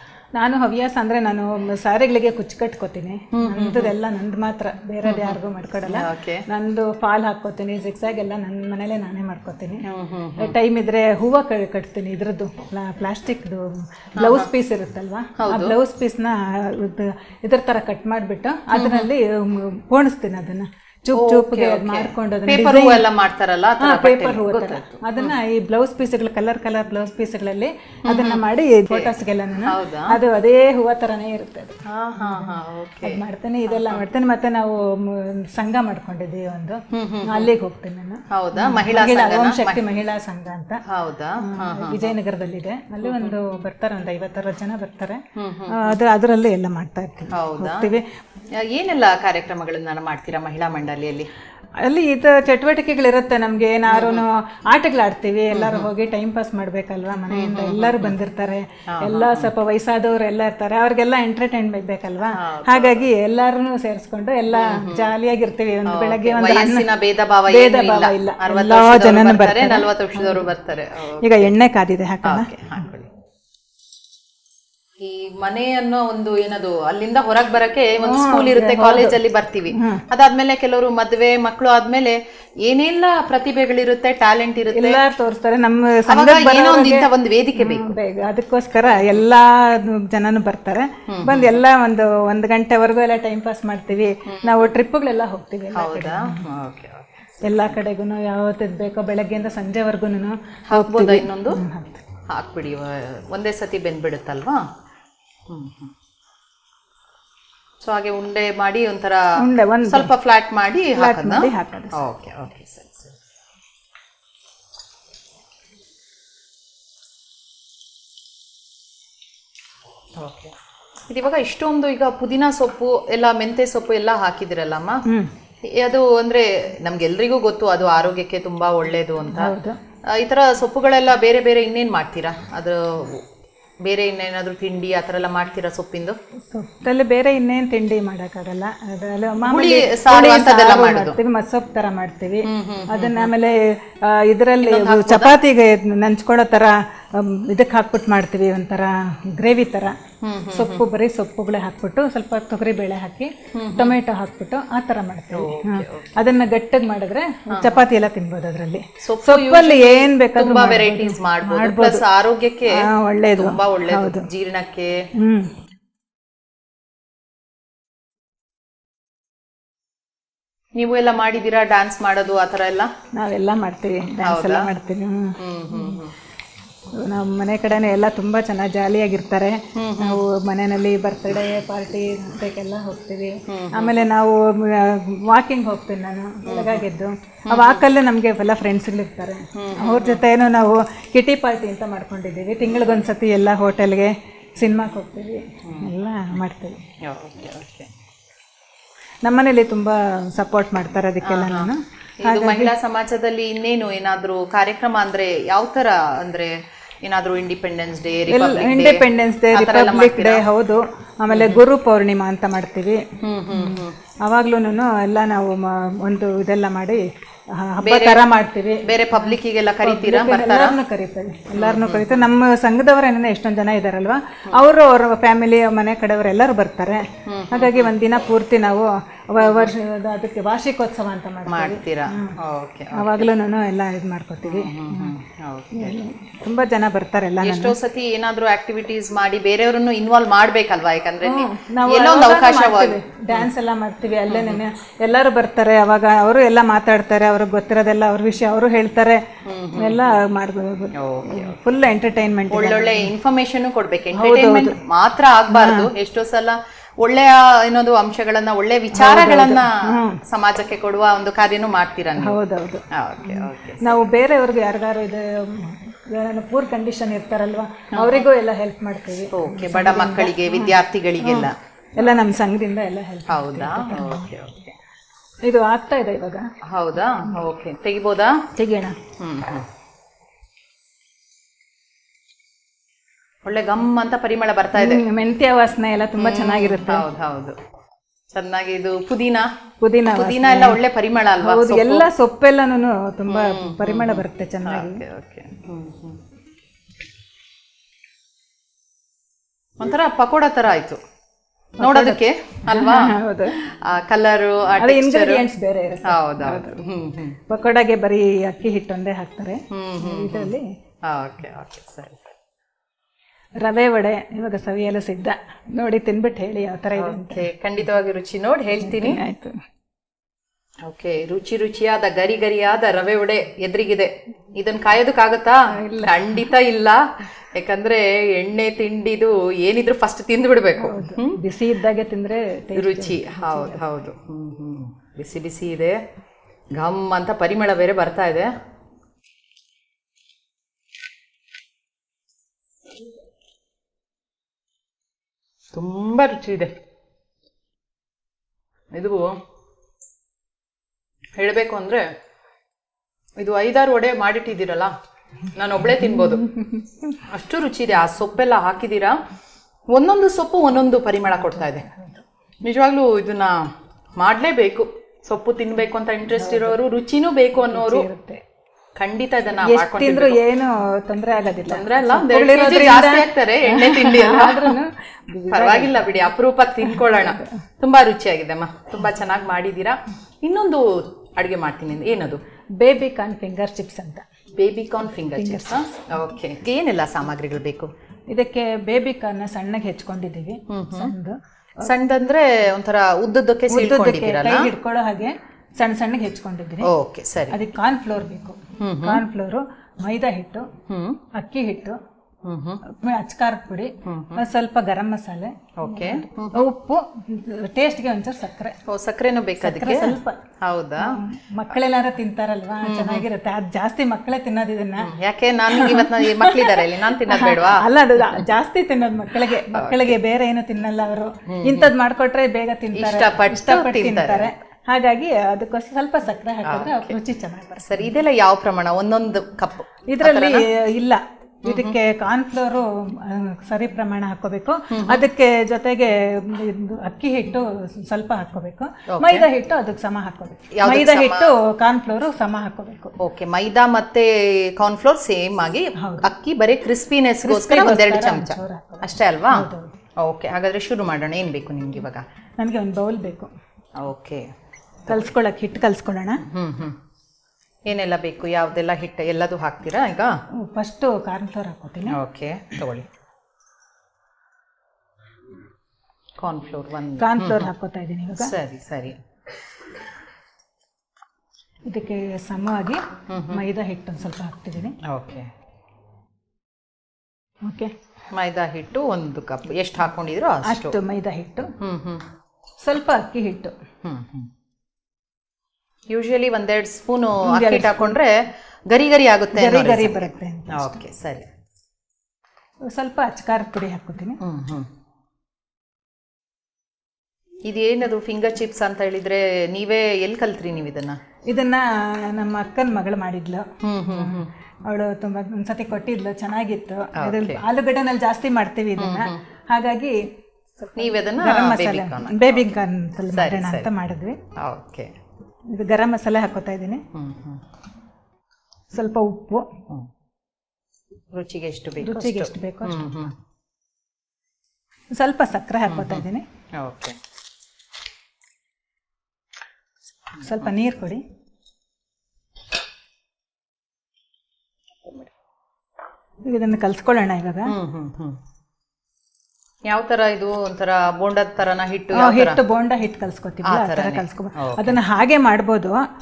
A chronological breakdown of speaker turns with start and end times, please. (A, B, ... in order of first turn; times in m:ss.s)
0:00.3-0:09.8 A
0:03.3-0:03.9 B
0:05.0-0:06.4 B
0:09.8-0:10.5 B
0:10.4-0:23.1 A
0:14.2-0:14.5 B
0:15.4-0:15.8 B
0:18.7-0:19.1 B
0:21.1-0:25.3 B
0:23.8-0:40.8 A
0:28.0-0:30.2 B
0:31.8-0:34.0 B
0:36.9-0:37.5 B
0:38.3-0:39.8 B
0:40.8-0:42.1 B
0:41.4-0:48.0 A
0:43.0-0:43.3 B
0:45.4-0:46.0 B
0:47.3-0:47.9 B
0:48.5-0:51.3 B
0:51.8-1:06.9 A
0:53.9-0:54.2 B
0:55.5-0:55.9 B
0:57.3-0:58.1 B
0:58.9-0:59.5 B
1:02.3-1:03.1 B
1:04.5-1:05.1 B
1:05.8-1:11.5 B
1:07.5-1:10.5 A
1:11.2-1:12.5 A
1:12.2-1:13.1 B
1:15.0-1:25.0 B
1:18.0-1:19.2 A
1:19.7-1:20.0 A
1:24.7-1:36.4 A
1:26.1-1:28.0 B
1:28.8-1:29.2 B
1:31.1-1:31.6 B
1:34.2-1:34.7 B
1:35.7-1:37.8 B
1:37.4-1:42.0 A
1:40.7-1:41.6 B
1:42.3-1:44.6 B
1:45.5-1:45.9 B
1:47.8-1:53.2 B
1:49.4-1:50.1 A
1:51.0-1:52.0 A
2:00.2-2:05.0 B
2:05.1-2:05.3 A
2:05.6-2:09.5 B
2:09.3-2:09.8 A
2:10.0-2:13.2 B
2:13.8-2:16.2 B
2:16.5-2:30.0 A
2:19.4-2:21.2 B
2:22.4-2:23.3 B
2:24.6-2:25.4 B
2:30.2-2:30.9 B
2:30.5-2:42.0 A
2:33.5-2:34.0 B
2:35.3-2:36.1 B
2:37.5-2:37.8 B
2:39.0-2:45.0 B
2:42.7-2:44.3 A
2:45.2-2:45.5 A
2:50.8-2:52.9 B
2:53.1-2:56.0 A
2:54.2-2:54.7 B
2:55.4-2:56.1 B
2:56.9-3:16.8 A
2:59.7-3:00.2 B
3:03.5-3:04.1 B
3:06.4-3:06.8 B
3:07.4-3:07.8 B
3:09.5-3:10.2 B
3:15.6-3:15.9 B
3:17.0-3:17.9 B
3:19.2-3:22.7 A
3:21.2-3:30.4 B
3:28.3-3:52.4 A
3:31.3-3:31.6 B
3:33.2-3:34.0 B
3:37.8-3:38.3 B
3:38.8-3:40.8 B
3:41.6-3:42.2 B
3:47.2-3:47.9 B
3:49.4-3:49.7 B
3:51.4-3:53.3 B
3:52.9-3:55.2 A
3:54.4-3:56.0 B
3:55.7-3:57.8 A
3:57.4-4:03.5 B
4:01.2-4:09.2 A
4:04.3-4:04.6 B
4:09.4-4:10.2 B
4:09.7-4:13.1 A
4:10.9-4:11.6 B
4:12.5-4:22.4 B
4:14.1-4:14.8 A
4:15.5-4:15.9 A
4:18.9-4:20.2 A
4:22.2-4:34.3 A
4:22.9-4:23.9 B
4:27.9-4:28.2 B
4:29.3-4:32.2 B
4:33.3-4:34.7 B
4:35.4-4:36.5 A
4:36.7-4:38.4 B
4:38.6-4:39.0 A
4:39.2-4:39.6 B
4:43.4-4:45.0 B
4:44.8-4:47.1 A
4:46.2-4:47.6 B
4:48.3-4:49.5 B
4:49.8-4:50.8 A
4:50.1-4:52.1 B
4:51.4-4:55.0 A
4:53.3-4:56.2 B
4:59.8-5:01.0 B
5:01.8-5:03.6 A
5:01.8-5:05.4 B
5:04.8-5:06.9 A
5:06.0-5:07.4 B
5:07.5-5:10.7 A
5:09.7-5:12.3 B
5:13.6-5:17.5 A
5:16.9-5:19.2 B
5:18.8-5:19.6 A
5:20.8-5:31.4 B
5:25.7-5:26.4 A
5:30.8-5:33.8 A
5:32.7-5:36.0 B
5:36.7-5:38.5 B
5:45.7-5:46.7 B
5:48.9-5:49.4 B
5:51.4-5:52.0 B
5:53.4-5:54.9 B
5:55.5-5:56.5 B
5:55.8-5:57.2 A
5:57.2-5:59.2 B
5:59.9-6:01.9 B
6:01.5-6:02.2 A
6:02.6-6:08.1 B
6:06.3-6:06.8 A
6:07.6-6:08.4 A
6:09.0-6:10.4 B
6:09.6-6:16.1 A
6:11.6-6:14.8 B
6:15.5-6:22.4 B
6:16.8-6:17.5 A
6:22.8-6:24.2 A
6:24.6-6:27.9 B
6:25.1-6:26.0 A
6:28.3-6:31.9 A
6:30.7-6:31.1 B
6:31.8-6:34.7 B
6:33.7-6:36.9 A
6:36.8-6:37.6 B
6:37.5-6:40.7 A
6:38.8-6:39.2 B
6:40.9-6:41.2 B
6:41.3-6:42.0 A
6:42.4-6:42.8 B
6:42.8-6:48.8 A
6:44.0-6:44.4 B
6:45.8-6:46.6 B
6:48.9-6:51.2 B
6:49.6-6:50.4 A
6:51.0-6:55.1 A
6:52.8-6:53.2 B
6:55.0-6:58.5 B
6:55.7-7:08.1 A
6:59.5-7:00.1 B
7:01.5-7:01.9 B
7:02.9-7:04.5 B
7:06.6-7:07.2 B
7:07.8-7:10.6 B
7:10.1-7:23.1 A
7:11.6-7:12.0 B
7:14.9-7:15.2 B
7:19.1-7:19.5 B
7:20.7-7:21.5 B
7:23.2-7:32.2 B
7:26.0-7:26.3 A
7:27.4-7:30.0 A
7:32.6-7:33.5 A
7:34.0-7:34.4 B
7:35.0-7:35.3 B
7:35.1-7:36.4 A
7:36.4-7:37.0 B
7:37.9-7:40.3 B
7:40.6-7:42.2 A
7:42.1-7:43.1 B
7:46.4-7:47.7 B
7:47.2-7:48.5 A
7:48.4-7:49.2 B
7:51.8-7:55.0 A
7:53.3-7:53.6 B
7:55.0-7:55.5 B
7:57.6-7:57.9 A
7:58.3-8:01.0 B
8:00.6-8:01.7 A
8:01.8-8:02.2 B
8:02.8-8:03.8 A
8:04.0-8:04.5 B
8:06.1-8:11.5 B
8:07.4-8:08.2 A
8:09.5-8:11.0 A
8:12.8-8:14.4 A
8:14.4-8:14.9 B
8:17.6-8:21.2 B
8:21.5-8:34.4 A
8:23.8-8:24.5 B
8:27.1-8:27.6 B
8:29.0-8:29.4 B
8:31.0-8:32.7 B
8:33.3-8:33.9 B
8:34.6-8:35.1 B
8:35.7-8:37.0 A
8:37.1-8:37.6 B
8:38.9-8:39.7 A
8:41.3-8:43.3 B
8:42.0-8:43.1 A
8:45.1-8:46.4 A
8:45.9-8:46.2 B
8:46.8-8:47.2 B
8:50.4-8:50.7 B
8:50.4-8:51.2 A
8:56.5-8:57.7 A
8:57.6-8:58.4 B
8:59.9-9:02.6 B
9:02.1-9:06.0 A
9:03.6-9:05.0 B